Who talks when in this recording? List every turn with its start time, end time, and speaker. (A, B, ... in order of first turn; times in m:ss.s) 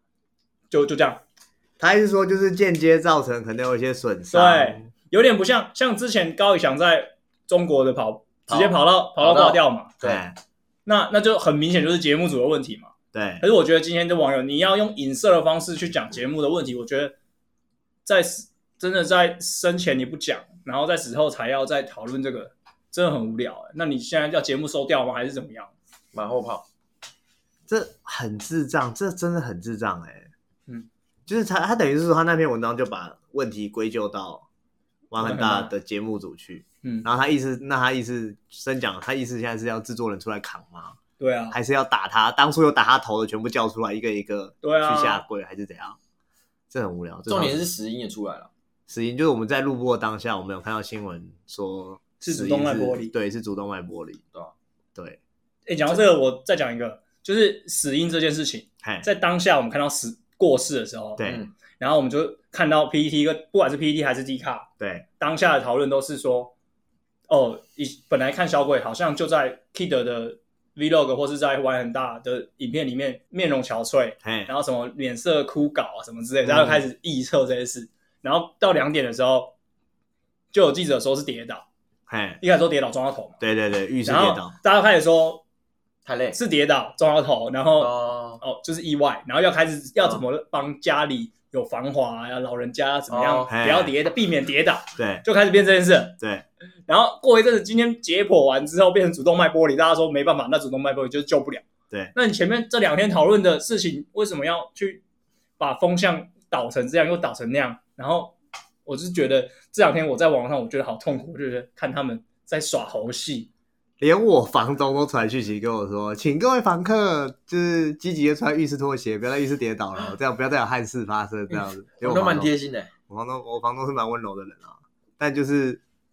0:00.7-0:01.2 A
0:01.8-0:04.9 B
0:04.3-0:10.0 A
0:08.5-0:10.2 C
0:10.0-0:10.4 B
0:10.9-0:17.2 A
0:13.1-0:13.4 B
0:18.0-0:25.7 A
0:26.1-0:26.7 C
0:27.7-0:30.3 B
0:31.3-0:34.5 B
0:35.1-0:41.0 B
0:35.2-0:35.7 A
0:41.2-0:41.6 A
0:41.5-0:46.0 B
0:44.6-0:45.2 A
0:46.7-0:47.6 B
0:47.3-0:48.5 C
0:48.9-0:54.2 B
0:52.2-0:53.1 A
0:55.7-1:01.2 A
0:58.8-0:59.1 B
1:01.2-1:01.5 C
1:01.8-1:06.5 A
1:04.8-1:05.1 B
1:07.3-1:19.5 A
1:14.2-1:14.5 B
1:16.4-1:16.8 B
1:20.5-1:21.7 A
1:22.1-1:22.4 B
1:22.4-1:23.4 A
1:23.4-1:24.5 B
1:24.0-1:25.4 A
1:26.0-1:26.4 C
1:26.3-1:36.2 A
1:27.8-1:28.4 C
1:33.1-1:33.5 C
1:33.5-1:33.9 B
1:35.0-1:35.2 B
1:36.2-1:36.4 B
1:36.9-1:45.0 A
1:45.6-1:48.4 A
1:48.9-1:53.5 A
1:54.0-2:02.5 B
2:01.5-2:02.9 C
2:03.1-2:05.8 B